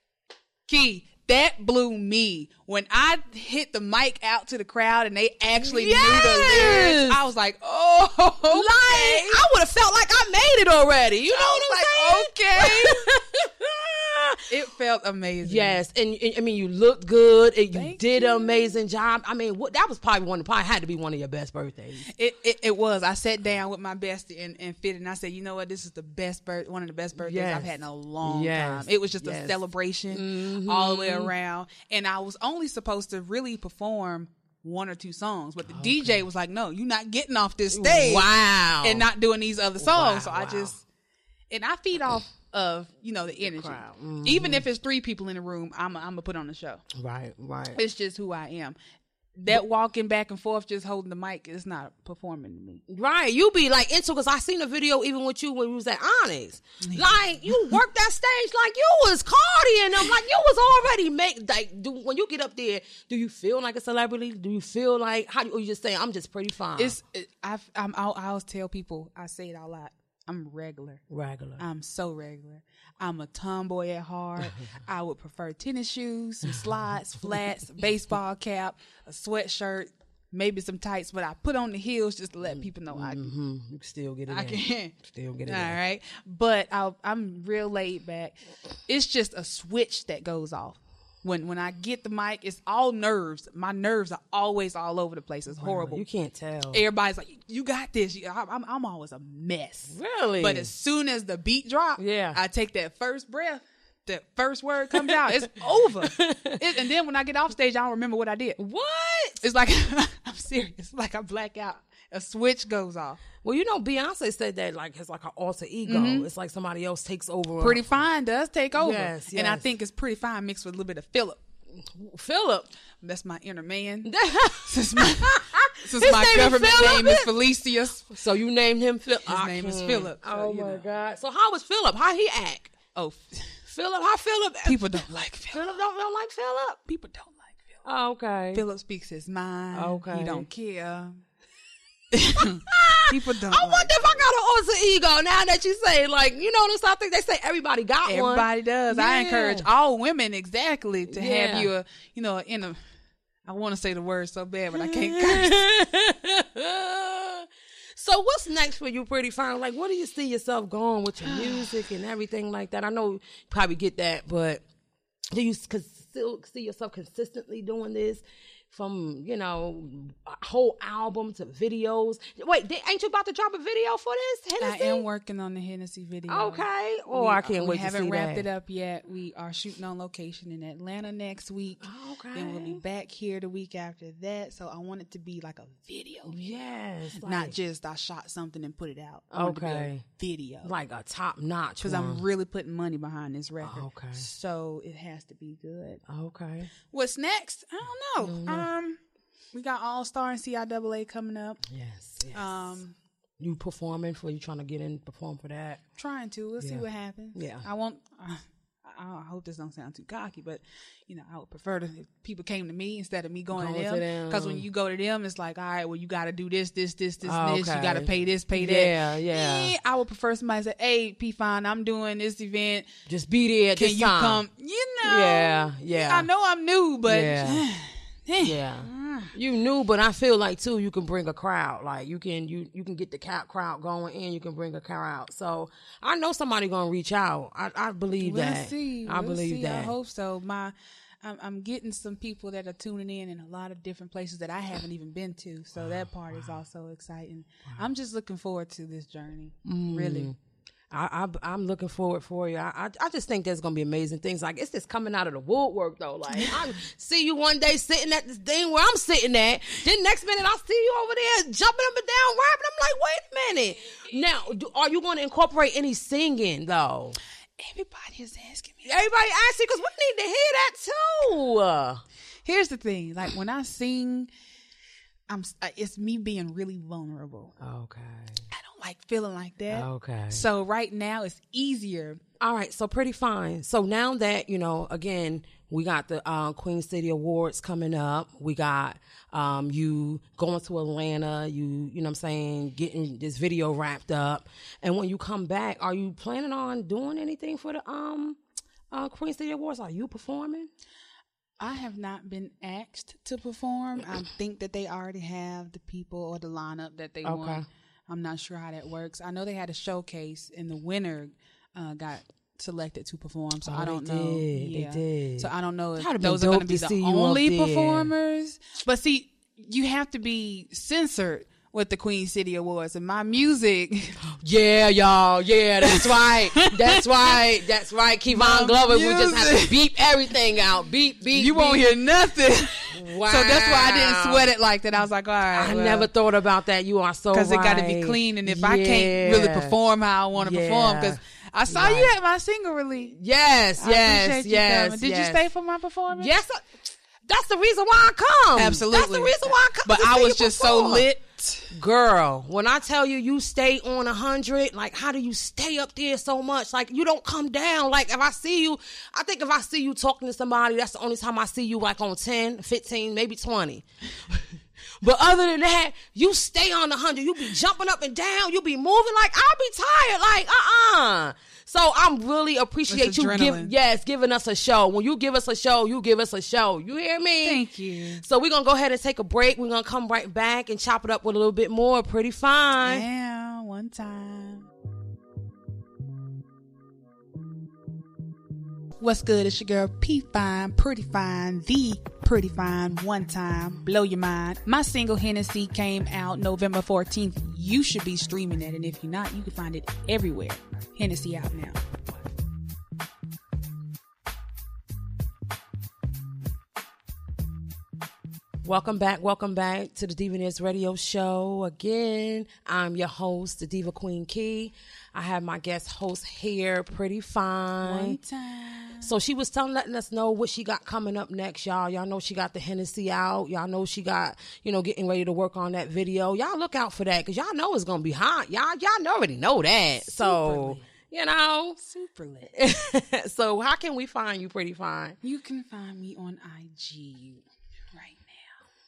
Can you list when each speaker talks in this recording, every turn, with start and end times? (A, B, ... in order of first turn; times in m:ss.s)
0:00.7-0:09.4 A
0:05.6-0:07.2 B
0:08.5-0:14.4 B
0:11.3-0:13.1 A
0:14.5-0:15.8 A
0:15.4-0:22.1 B
0:17.7-0:18.8 A
0:22.1-0:38.3 A
0:27.2-0:31.3 B
0:35.7-0:36.2 B
0:37.7-0:39.1 B
0:38.8-0:40.8 A
0:39.8-0:40.8 B
0:41.5-0:46.8 A
0:43.4-0:44.6 B
0:46.9-0:47.8 B
0:47.7-0:48.8 A
0:49.4-0:52.8 A
0:52.9-1:07.0 B
0:56.8-0:57.8 A
1:06.8-1:11.0 A
1:11.1-1:11.6 B
1:11.6-1:23.3 A
1:14.4-1:14.7 B
1:16.4-1:17.5 B
1:22.4-1:25.8 B
1:24.3-1:25.0 A
1:25.5-1:36.0 A
1:35.5-1:36.8 B
1:36.7-1:48.6 A
1:39.9-1:40.7 B
1:42.0-1:42.4 B
1:44.9-1:45.3 B
1:46.0-1:46.7 B
1:48.6-1:49.4 B
1:49.4-1:53.2 A
1:53.4-1:57.8 B
1:55.9-1:56.3 A
1:57.6-2:01.4 A
1:58.8-1:59.6 B
2:01.8-2:02.7 B
2:03.0-2:08.2 A
2:04.0-2:07.3 B
2:08.1-2:12.7 B
2:09.3-2:10.9 A
2:13.0-2:13.5 A
2:13.7-2:14.8 B
2:14.6-2:15.7 A
2:15.5-2:16.8 B
2:16.9-2:17.8 A
2:17.8-2:18.6 B
2:18.5-2:21.2 A
2:19.7-2:20.5 B
2:22.1-2:24.2 A
2:22.4-2:29.7 B
2:28.0-2:32.8 A
2:31.1-2:31.7 B
2:33.4-2:35.6 A
2:34.7-2:44.6 B
2:41.3-2:41.7 A
2:45.3-2:55.1 B
2:54.6-3:06.4 A
2:56.3-2:58.5 B
3:01.8-3:02.8 B
3:06.3-3:07.6 B
3:07.2-3:10.7 A
3:09.3-3:10.0 B
3:10.6-3:12.2 B
3:11.8-3:16.0 A
3:13.6-3:14.2 B
3:16.1-3:16.7 B
3:16.9-3:19.0 A
3:18.2-3:18.7 B
3:19.5-3:21.6 A
3:21.7-3:22.7 B
3:22.3-3:23.0 A
3:23.4-3:25.8 B
3:26.0-3:42.9 A
3:26.6-3:27.6 B
3:33.5-3:34.7 B
3:37.2-3:39.7 B
3:43.1-3:44.4 B
3:43.8-3:49.3 A
3:45.0-3:46.3 B
3:47.1-3:47.7 B
3:48.4-3:59.9 B
3:58.2-4:10.3 A
4:05.8-4:06.6 B
4:09.6-4:10.4 B
4:10.9-4:27.2 B
4:27.6-4:29.0 A
4:28.8-4:32.0 B
4:32.4-4:34.3 A
4:35.3-4:37.5 A
4:37.6-4:38.4 B
4:38.5-4:42.2 A
4:39.7-4:40.4 B
4:42.4-4:58.4 B
4:58.9-5:00.7 B
5:01.6-5:24.2 A
5:07.2-5:07.7 B
5:13.6-5:18.1 B
5:24.3-5:32.0 B
5:25.8-5:27.4 A
5:28.3-5:29.9 A
5:31.3-5:36.1 A
5:32.9-5:34.5 B
5:35.5-5:39.8 B
5:37.3-5:43.2 A
5:40.4-5:42.1 B
5:43.1-5:45.5 B
5:43.8-5:46.3 A
5:46.1-5:51.1 B
5:48.6-5:51.7 A
5:51.7-6:17.6 B
6:12.9-6:13.7 A
6:17.4-6:18.2 A
6:18.2-6:23.1 B
6:22.8-6:24.7 A
6:29.0-6:41.8 A
6:48.6-6:58.2 B
6:57.8-6:59.1 A
6:59.0-7:11.8 B
7:10.0-7:10.9 A
7:11.8-7:12.5 A
7:12.5-7:15.2 B
7:15.2-7:18.6 A